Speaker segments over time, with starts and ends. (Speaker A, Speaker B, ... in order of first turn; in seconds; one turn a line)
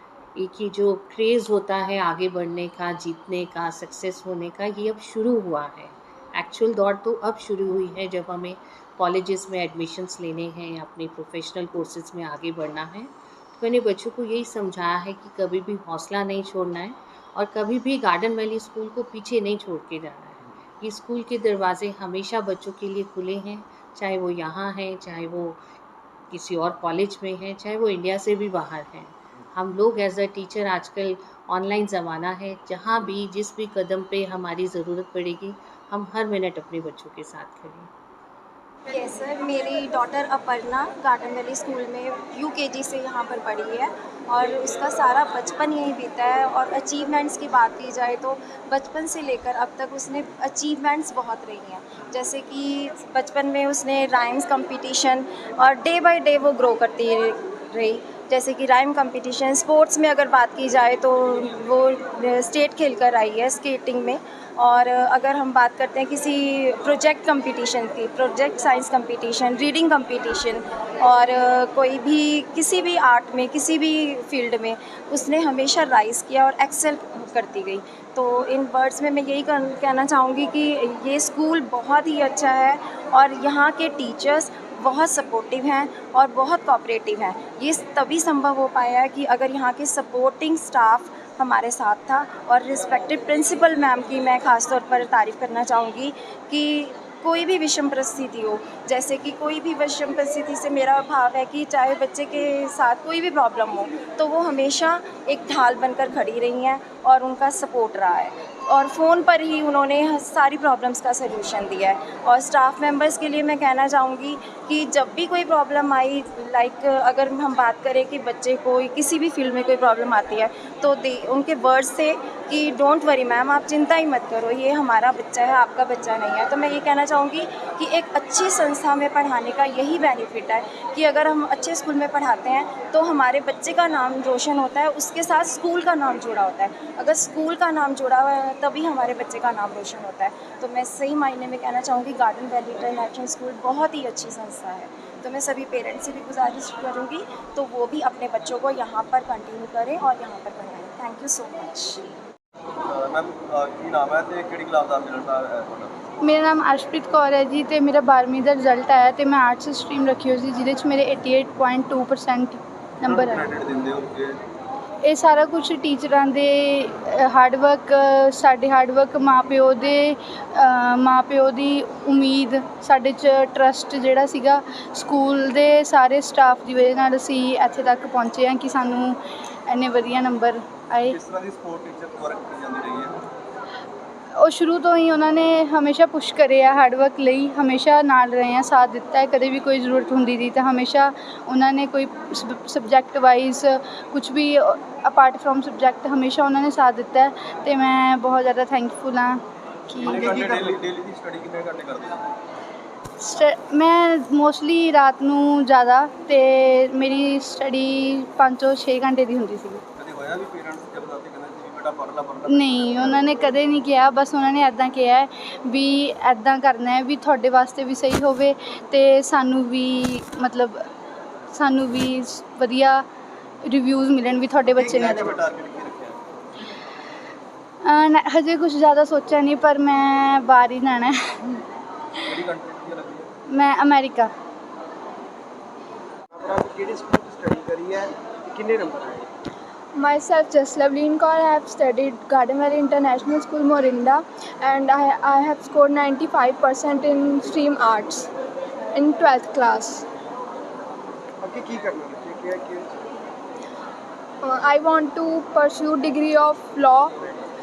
Speaker A: 0.4-25.6
Speaker A: 26.3-37.9
Speaker B: 38.9-152.1
Speaker C: 152.9-156.0
Speaker D: 156.2-163.4
Speaker C: 163.0-164.3
Speaker D: 165.0-181.1
Speaker C: 181.0-183.1
Speaker D: 184.4-199.4
Speaker C: 199.9-202.3
Speaker E: 200.2-200.8
Speaker D: 203.2-209.8
Speaker C: 210.0-213.7
Speaker D: 212.5-220.8
Speaker D: 221.5-223.0
Speaker D: 223.7-225.4
Speaker C: 224.6-226.2
Speaker D: 227.8-231.6
Speaker C: 232.3-233.3
Speaker D: 233.5-234.3
Speaker E: 236.3-239.3
Speaker F: 239.9-248.3
Speaker F: 248.9-250.1
Speaker E: 251.4-252.9
Speaker F: 254.4-257.1